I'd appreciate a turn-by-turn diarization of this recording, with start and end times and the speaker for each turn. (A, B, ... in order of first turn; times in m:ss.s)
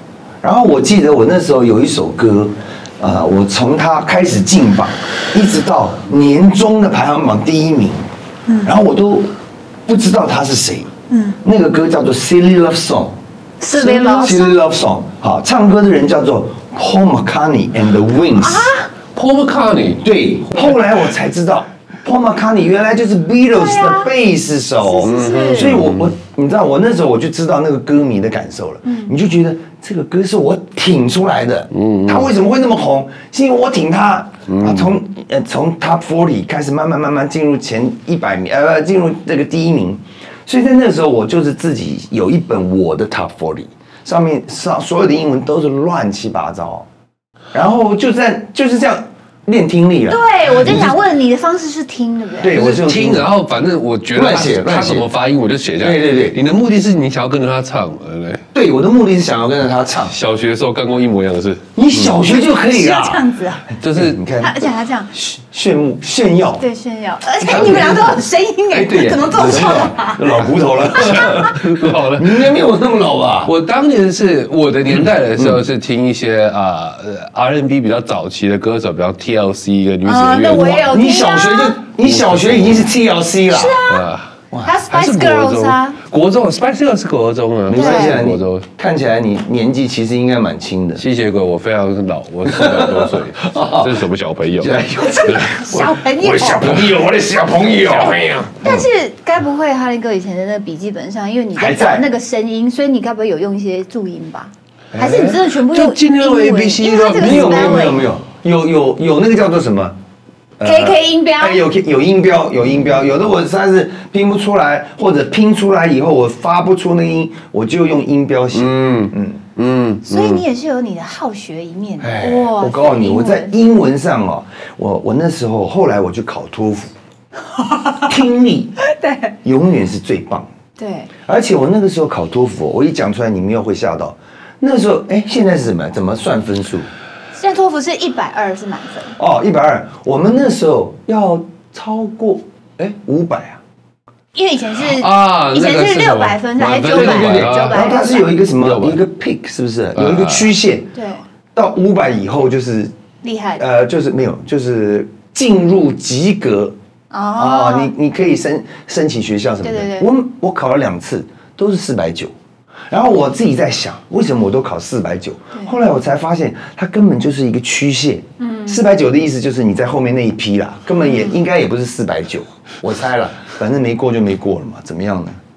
0:00.4-0:08.0 A
0:08.5-0:08.7 B
0:08.6-0:09.3 A
0:09.8-0:10.9 A
0:11.1-0:11.4 B
0:11.4-0:13.2 A
0:13.6-0:14.6 B
0:13.7-0:18.7 A
0:18.4-0:18.9 B
0:19.1-0:20.0 C
0:20.0-0:46.9 A
0:23.5-0:24.1 B
0:24.8-0:25.8 B
0:25.0-0:26.1 C
0:31.7-0:32.3 C
0:34.5-0:34.9 C
0:47.5-0:51.0 A
0:50.1-0:52.5 B
0:52.4-0:53.3 A
0:52.5-0:58.4 C
0:54.1-0:55.1 A
0:55.8-0:56.4 A
0:58.5-1:00.1 A
1:00.1-1:02.1 C
1:01.8-1:03.2 A
1:02.3-1:03.7 B
1:03.8-1:04.2 C
1:03.9-1:06.6 A
1:04.4-1:05.1 B
1:06.6-1:10.2 B
1:07.4-1:13.5 A
1:10.4-1:12.6 C
1:13.4-1:21.0 C
1:14.9-1:15.6 A
1:20.0-1:21.8 B
1:20.8-1:23.8 A
1:22.0-1:22.9 C
1:23.5-1:24.1 B
1:23.8-1:28.7 C
1:24.6-1:26.0 B
1:27.7-1:31.0 A
1:27.7-1:28.2 B
1:31.0-1:35.6 C
1:32.4-1:34.0 A
1:34.6-1:38.8 A
1:35.3-1:36.6 B
1:36.6-1:37.0 C
1:37.9-1:38.6 C
1:38.1-1:48.0 B
1:41.6-1:42.0 A
1:44.9-1:45.4 A
1:45.5-1:47.9 C
1:47.1-1:50.0 A
1:50.6-1:59.4 A
1:50.6-1:51.6 B
1:58.5-2:00.4 C
2:00.0-2:03.5 B
2:02.0-2:06.9 A
2:07.6-2:08.1 B
2:08.0-2:08.7 A
2:08.8-2:09.3 B
2:09.4-2:10.5 A
2:10.8-2:11.1 B
2:11.2-2:16.9 A
2:17.3-2:19.1 B
2:19.2-2:23.6 A
2:24.3-2:28.3 B
2:24.8-2:27.9 C
2:26.9-2:30.9 A
2:28.6-2:29.0 C
2:30.0-2:30.5 C
2:30.9-2:31.2 B
2:31.5-2:32.9 A
2:33.2-2:33.6 B
2:33.6-2:36.8 A
2:37.1-2:37.9 B
2:37.4-2:42.3 A
2:39.6-2:40.1 B
2:42.9-2:55.4 A
2:48.4-2:48.8 B
2:51.0-2:51.3 B